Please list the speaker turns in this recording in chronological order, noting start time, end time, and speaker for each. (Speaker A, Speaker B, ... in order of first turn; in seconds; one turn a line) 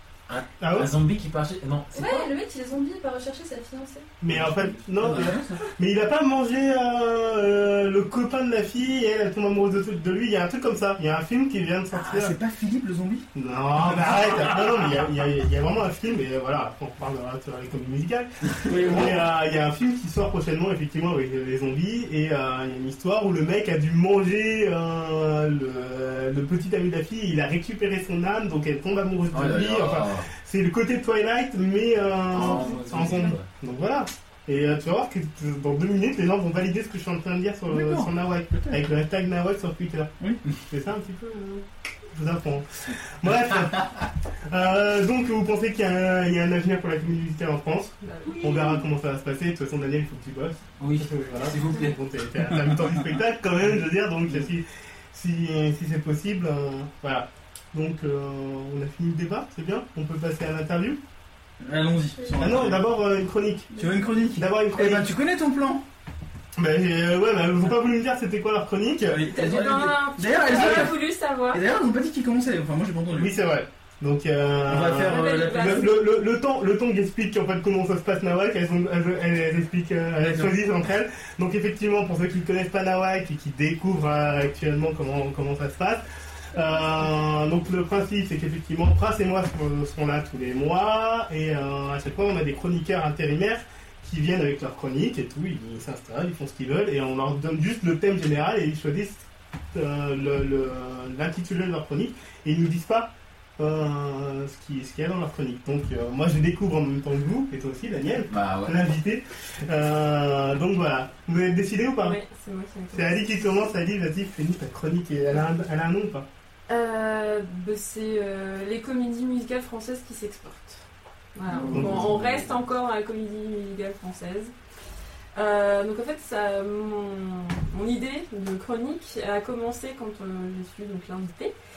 Speaker A: 0.3-2.3
Speaker B: 0.6-0.9
Speaker C: 1.9-4.1
Speaker B: 4.2-12.3
Speaker D: 4.3-5.7
Speaker A: 5.0-5.3
Speaker D: 11.9-13.2
Speaker B: 13.3-61.0
Speaker D: 13.8-14.6
Speaker D: 18.6-19.2
Speaker A: 29.3-30.3
Speaker A: 32.3-33.5
Speaker C: 32.4-33.3
Speaker D: 37.7-38.8
Speaker E: 48.0-48.5
Speaker C: 48.3-48.8
Speaker A: 50.8-52.0
Speaker D: 52.7-53.0
Speaker D: 61.6-62.9
Speaker C: 62.1-62.6
Speaker B: 62.4-63.7
Speaker C: 63.7-64.1
Speaker D: 63.8-65.8
Speaker B: 64.3-65.1
Speaker B: 66.6-69.3
Speaker D: 69.1-73.3
Speaker E: 69.3-71.6
Speaker B: 73.1-112.2
Speaker D: 74.7-76.0
Speaker E: 75.0-76.0
Speaker D: 80.2-80.5
Speaker A: 108.3-108.8
Speaker E: 112.0-113.5
Speaker B: 112.9-116.3
Speaker E: 116.7-124.5
Speaker D: 121.5-122.4
Speaker B: 121.7-122.3
Speaker E: 125.3-131.5